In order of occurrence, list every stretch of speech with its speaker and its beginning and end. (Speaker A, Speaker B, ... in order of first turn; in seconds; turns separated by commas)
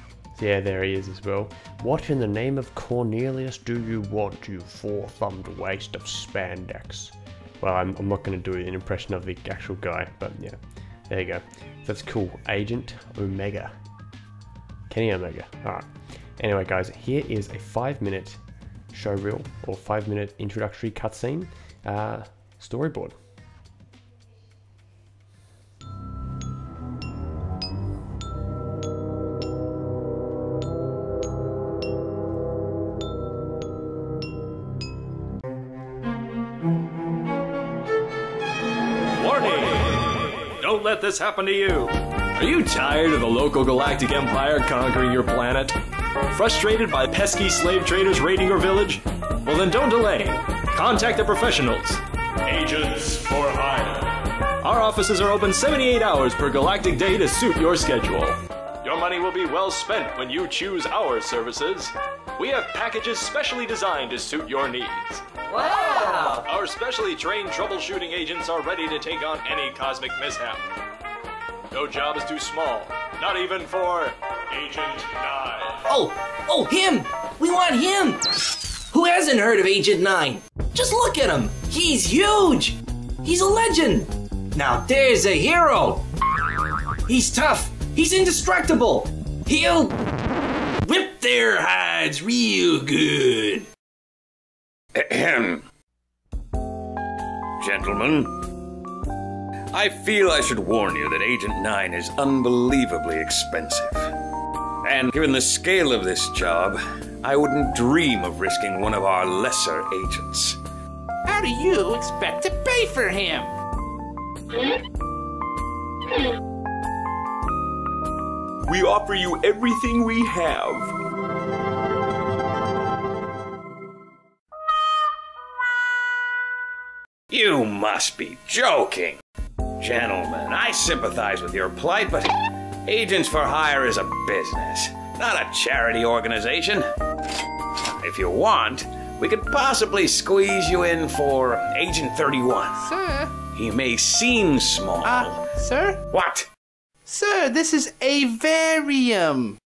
Speaker A: 0.3-10.6, Speaker A: 11.1-13.7, Speaker A: 14.9-15.9, Speaker A: 16.4-18.4, Speaker A: 18.9-23.2, Speaker B: 39.2-45.8, Speaker B: 46.3-70.7, Speaker B: 71.7-75.9, Speaker C: 75.9-78.2, Speaker C: 78.9-86.0, Speaker C: 87.0-90.0, Speaker C: 90.8-93.7, Speaker D: 94.9-95.6, Speaker D: 97.6-98.4, Speaker D: 99.7-104.1, Speaker D: 104.8-110.6, Speaker E: 111.2-113.5, Speaker D: 118.7-120.9, Speaker D: 127.3-129.2, Speaker D: 129.8-132.3, Speaker D: 132.8-136.8, Speaker D: 137.8-142.9, Speaker E: 142.8-143.4, Speaker D: 143.5-145.4, Speaker E: 145.0-146.0, Speaker D: 146.1-146.5, Speaker E: 147.0-149.6